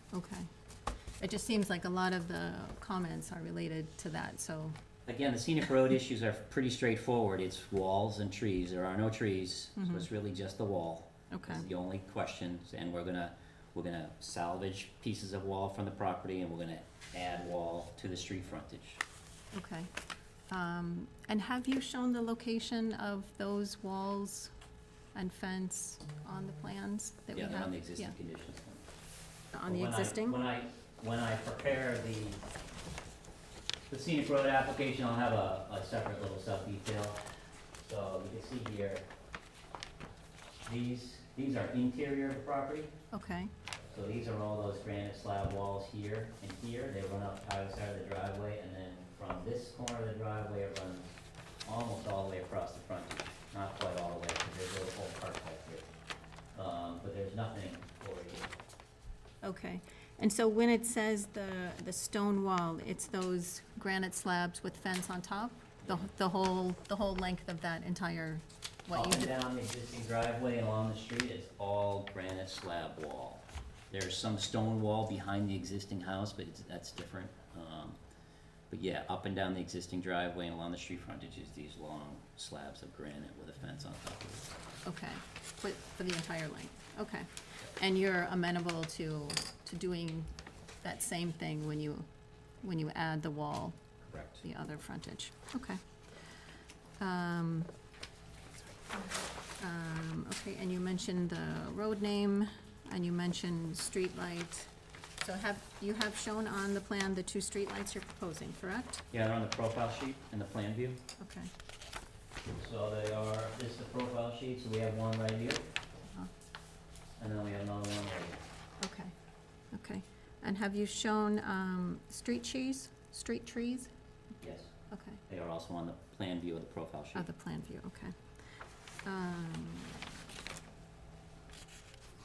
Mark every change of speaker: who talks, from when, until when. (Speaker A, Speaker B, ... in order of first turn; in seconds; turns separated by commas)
Speaker A: 0.1-0.5, Speaker A: 1.2-4.8, Speaker B: 5.1-19.0, Speaker A: 9.8-10.1, Speaker A: 11.3-11.7, Speaker A: 19.5-19.9, Speaker A: 20.5-24.5, Speaker A: 25.1-28.1, Speaker B: 27.3-28.9, Speaker A: 29.5-30.4, Speaker B: 29.6-32.4, Speaker B: 33.9-37.2, Speaker B: 37.8-39.0, Speaker B: 40.6-42.9, Speaker A: 43.1-43.5, Speaker B: 43.9-51.1, Speaker B: 51.6-55.9, Speaker B: 56.5-58.5, Speaker A: 59.4-69.3, Speaker B: 68.9-78.0, Speaker B: 78.7-84.5, Speaker A: 84.8-90.3, Speaker A: 90.8-92.1, Speaker A: 92.6-93.8, Speaker B: 94.1-94.4, Speaker A: 94.4-95.8, Speaker A: 97.0-97.7, Speaker A: 98.9-104.7, Speaker A: 105.2-109.0, Speaker B: 109.1-111.0, Speaker A: 111.2-111.5, Speaker B: 112.6-115.7, Speaker B: 117.2-118.4, Speaker A: 118.8-119.1, Speaker A: 119.7-123.9, Speaker B: 124.4-124.7, Speaker A: 124.9-125.2, Speaker B: 125.3-127.3, Speaker A: 127.2-128.1, Speaker A: 129.1-130.2